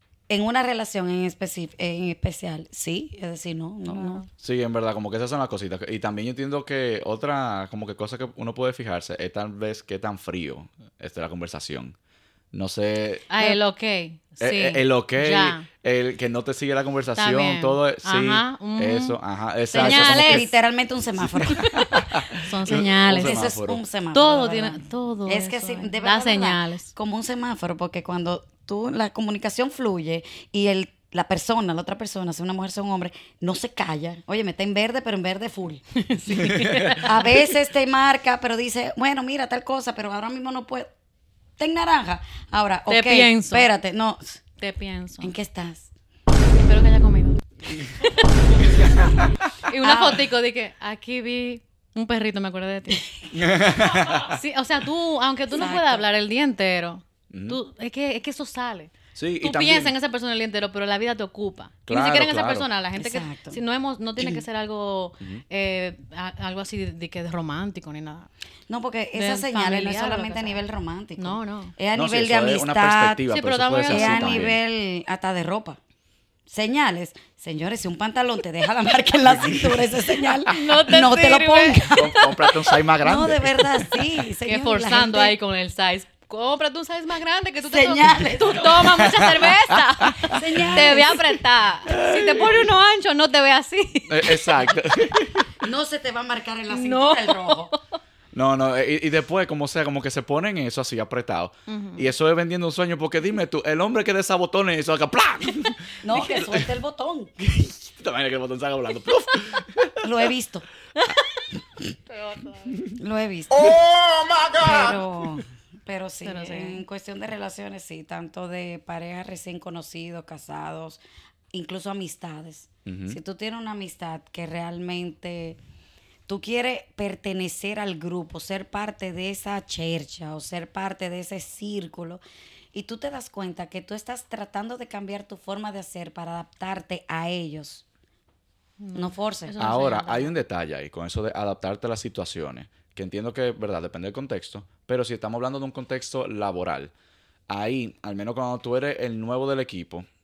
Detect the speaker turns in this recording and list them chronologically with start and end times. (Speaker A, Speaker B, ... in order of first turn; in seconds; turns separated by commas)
Speaker A: 0.3-4.2, Speaker B: 3.9-4.3, Speaker C: 4.4-11.9, Speaker C: 12.5-13.3, Speaker B: 13.3-15.7, Speaker C: 14.4-20.5, Speaker B: 17.2-19.2, Speaker B: 19.7-20.5, Speaker A: 19.7-22.1, Speaker C: 21.6-23.8, Speaker B: 22.4-23.5, Speaker A: 22.7-35.8, Speaker B: 24.1-26.9, Speaker B: 36.0-37.2, Speaker C: 36.4-37.0, Speaker A: 37.0-40.9, Speaker A: 41.6-44.4, Speaker B: 42.9-43.7, Speaker B: 44.6-45.3, Speaker A: 45.2-45.9, Speaker B: 46.6-49.1, Speaker B: 49.6-53.1, Speaker A: 49.8-50.3, Speaker C: 53.3-54.3, Speaker B: 54.2-68.3, Speaker A: 55.5-56.1, Speaker C: 57.3-57.6, Speaker C: 59.1-59.9, Speaker C: 61.9-62.7, Speaker A: 63.0-63.6, Speaker A: 68.7-73.2, Speaker B: 69.2-70.6, Speaker B: 71.2-71.8, Speaker C: 71.9-74.6, Speaker B: 73.3-74.5, Speaker A: 73.9-75.8, Speaker A: 76.5-82.1, Speaker C: 79.3-80.0, Speaker B: 80.5-82.8, Speaker C: 81.9-84.0, Speaker A: 83.0-85.4, Speaker B: 84.5-94.7, Speaker A: 87.7-89.2, Speaker C: 88.9-91.0, Speaker A: 90.3-91.2, Speaker C: 91.9-92.7, Speaker C: 94.1-95.5, Speaker A: 95.6-97.7, Speaker B: 96.7-97.8, Speaker C: 98.3-106.7, Speaker B: 101.7-102.1, Speaker A: 106.0-107.3, Speaker C: 107.4-110.0, Speaker A: 110.0-110.7, Speaker B: 112.1-112.9, Speaker A: 113.0-113.8, Speaker C: 113.5-115.0, Speaker A: 114.6-121.0, Speaker B: 116.2-116.8, Speaker A: 121.5-125.6, Speaker C: 122.9-123.2, Speaker A: 126.3-132.2, Speaker A: 132.7-137.8, Speaker B: 138.8-140.3, Speaker A: 138.9-139.6, Speaker C: 139.6-146.9, Speaker C: 147.5-150.1